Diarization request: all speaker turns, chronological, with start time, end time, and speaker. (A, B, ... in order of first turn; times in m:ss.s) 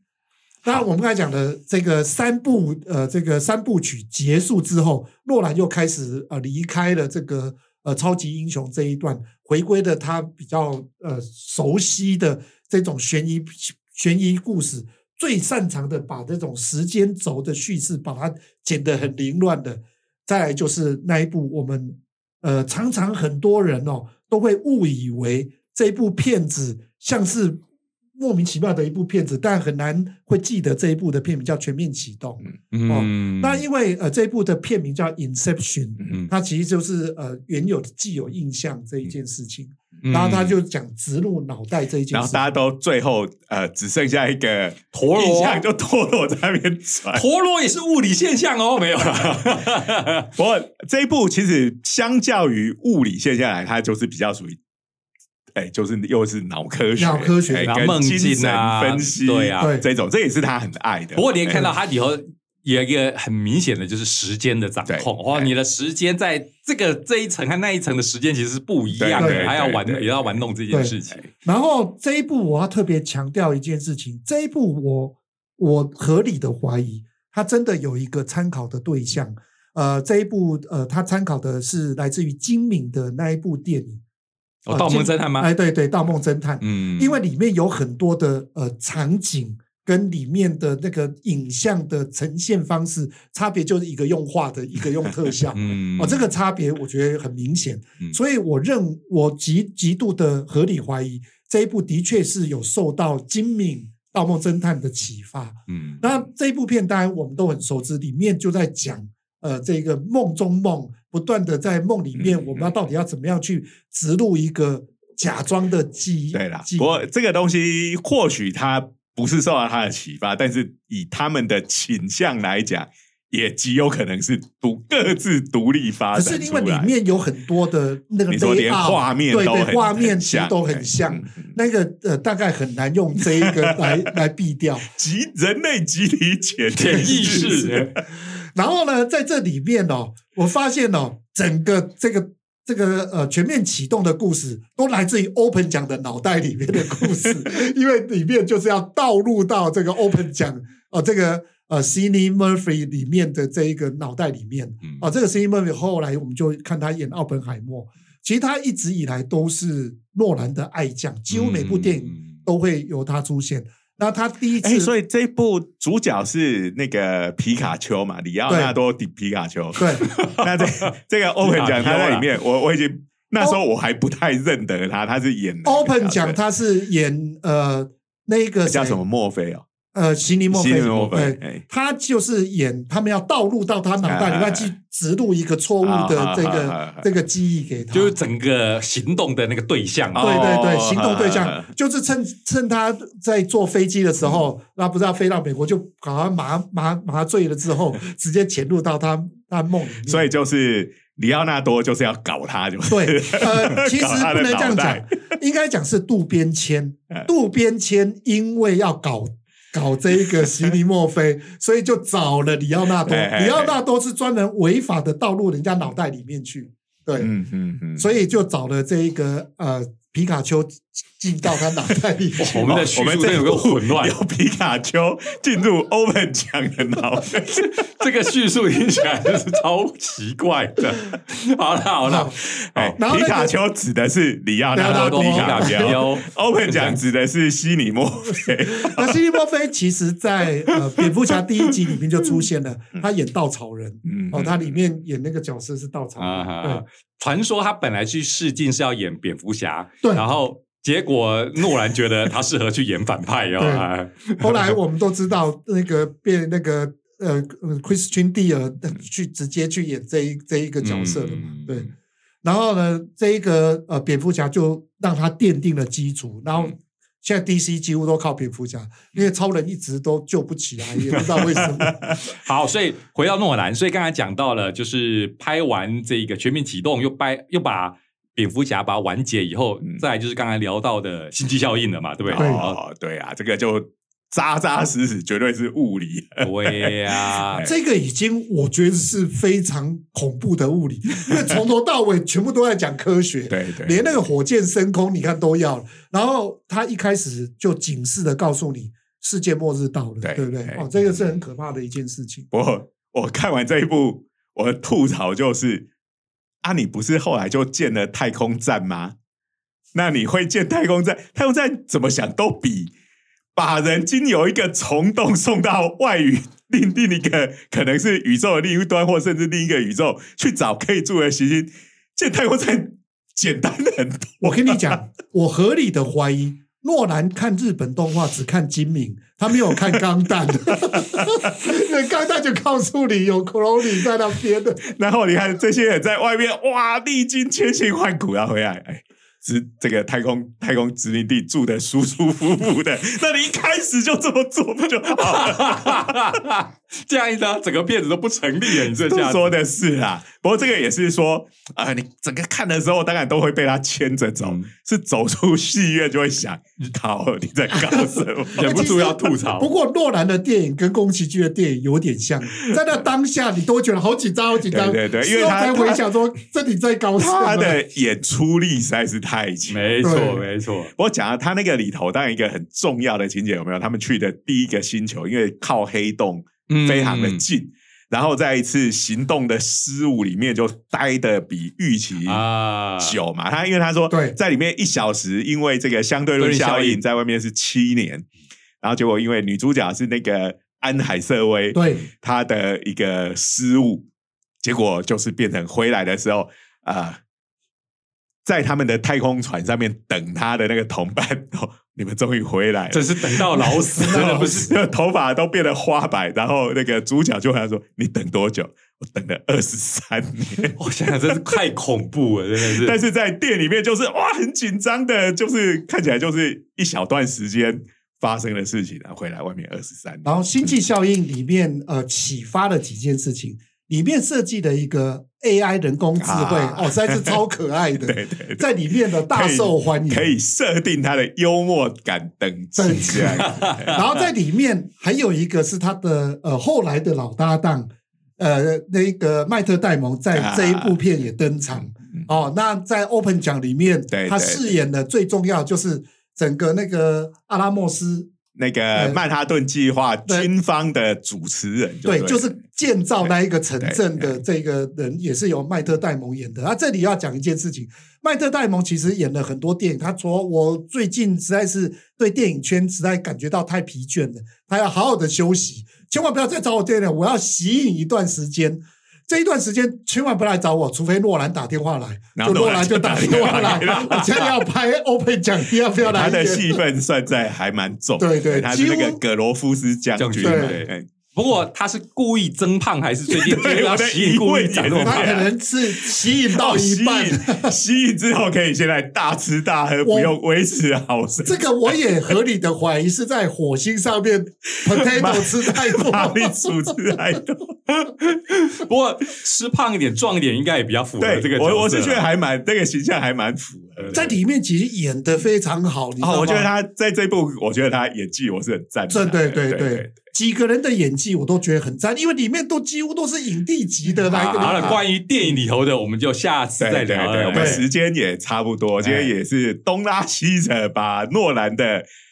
0:00.6-0:27.6 A
0:28.2-0:42.4 A
0:32.7-0:33.6 B
0:40.0-0:40.6 B
0:42.1-0:47.2 C
0:44.9-0:45.6 B
0:47.1-0:50.3 B
0:50.4-0:54.6 C
0:55.6-1:01.7 C
0:57.0-0:57.7 A
0:57.6-0:59.7 B
0:59.6-0:59.8 A
1:01.2-1:11.3 B
1:04.9-1:05.5 C
1:09.0-1:10.4 C
1:09.2-1:09.5 A
1:10.7-1:24.0 A
1:24.7-1:25.5 B
1:24.7-1:57.0 A
1:26.6-1:27.2 B
1:35.6-1:36.3 B
1:45.7-1:46.0 B
1:52.2-1:52.7 C
1:56.3-2:06.9 C
2:06.1-2:14.9 A
2:08.3-2:11.5 C
2:13.3-2:14.1 C
2:14.9-2:18.0 C
2:16.7-2:17.9 B
2:16.9-2:17.6 A
2:18.4-2:44.9 A
2:41.3-2:42.3 B
2:44.6-2:56.4 C
2:48.5-2:48.8 A
2:49.8-2:50.0 A
2:50.0-2:50.9 B
2:51.4-2:52.3 B
2:55.6-2:59.0 A
2:58.7-2:59.6 C
2:59.9-3:08.2 A
3:00.5-3:01.6 C
3:04.0-3:04.7 C
3:05.8-3:07.1 C
3:07.9-3:10.3 B
3:10.2-3:11.7 C
3:10.2-3:20.3 A
3:20.1-3:25.0 C
3:22.9-3:37.3 A
3:33.0-3:33.8 C
3:37.2-3:38.1 C
3:38.0-3:42.7 A
3:42.4-3:44.2 B
3:42.6-3:47.7 C
3:47.5-3:52.9 B
3:52.0-3:52.4 A
3:52.6-3:59.2 C
3:53.0-3:53.5 A
3:54.7-3:56.0 A
3:54.8-3:57.0 B
3:58.8-4:06.8 A
4:00.7-4:01.0 C
4:04.1-4:04.7 C
4:06.2-4:14.7 B
4:13.6-4:21.9 A
4:20.8-4:21.9 B
4:22.4-4:32.2 A
4:32.2-4:42.8 B
4:42.3-4:47.7 C
4:42.3-4:42.6 A
4:46.4-4:47.7 B
4:47.6-5:02.5 A
4:53.5-4:54.2 C
5:00.2-5:00.9 C
5:02.5-5:05.9 C
5:06.6-5:09.2 C
5:09.9-5:12.9 C
5:13.6-5:25.0 C
5:24.4-5:34.9 A
5:30.8-5:31.6 C
5:34.8-5:46.2 C
5:45.2-5:49.5 B
5:48.7-5:59.0 C
5:54.4-5:54.7 B
5:57.9-6:07.8 A
5:58.5-5:59.7 B
6:04.7-6:06.0 C
6:07.2-6:10.0 C
6:09.7-6:10.9 B
6:10.0-6:10.4 A
6:11.0-6:22.4 C
6:16.7-6:17.4 B
6:22.2-6:23.2 B
6:23.0-6:28.3 C
6:24.1-6:24.4 A
6:26.4-6:27.0 B
6:28.8-6:34.0 C
6:31.7-6:32.1 A
6:34.6-6:37.2 C
6:38.4-6:50.8 C
6:42.9-6:44.8 B
6:44.0-6:44.5 A
6:50.8-6:53.0 B
6:52.6-7:00.8 C
7:00.2-7:10.3 A
7:06.2-7:07.4 C
7:08.0-7:08.7 C
7:09.3-7:14.2 C
7:12.8-7:28.3 A
7:13.3-7:13.9 B
7:20.3-7:21.0 C
7:24.1-7:24.7 C
7:28.6-7:32.5 C
7:28.9-7:29.2 A
7:32.0-7:56.8 A
7:33.8-7:34.4 C
7:52.4-7:54.6 C
7:56.0-8:01.0 C
7:58.2-7:59.2 A
8:00.2-8:05.4 B
8:00.4-8:00.8 A
8:03.3-8:12.0 C
8:05.0-8:07.7 A
8:10.0-8:10.3 A
8:11.4-8:17.2 A
8:14.8-8:17.7 C
8:17.9-8:22.3 B
8:21.2-8:24.4 C
8:24.0-8:24.4 B
8:24.1-8:26.7 A
8:26.2-8:30.3 C
8:29.1-8:35.0 A
8:34.3-8:37.8 B
8:34.4-8:35.0 C
8:36.8-8:42.1 C
8:37.5-8:37.8 A
8:39.0-8:39.3 B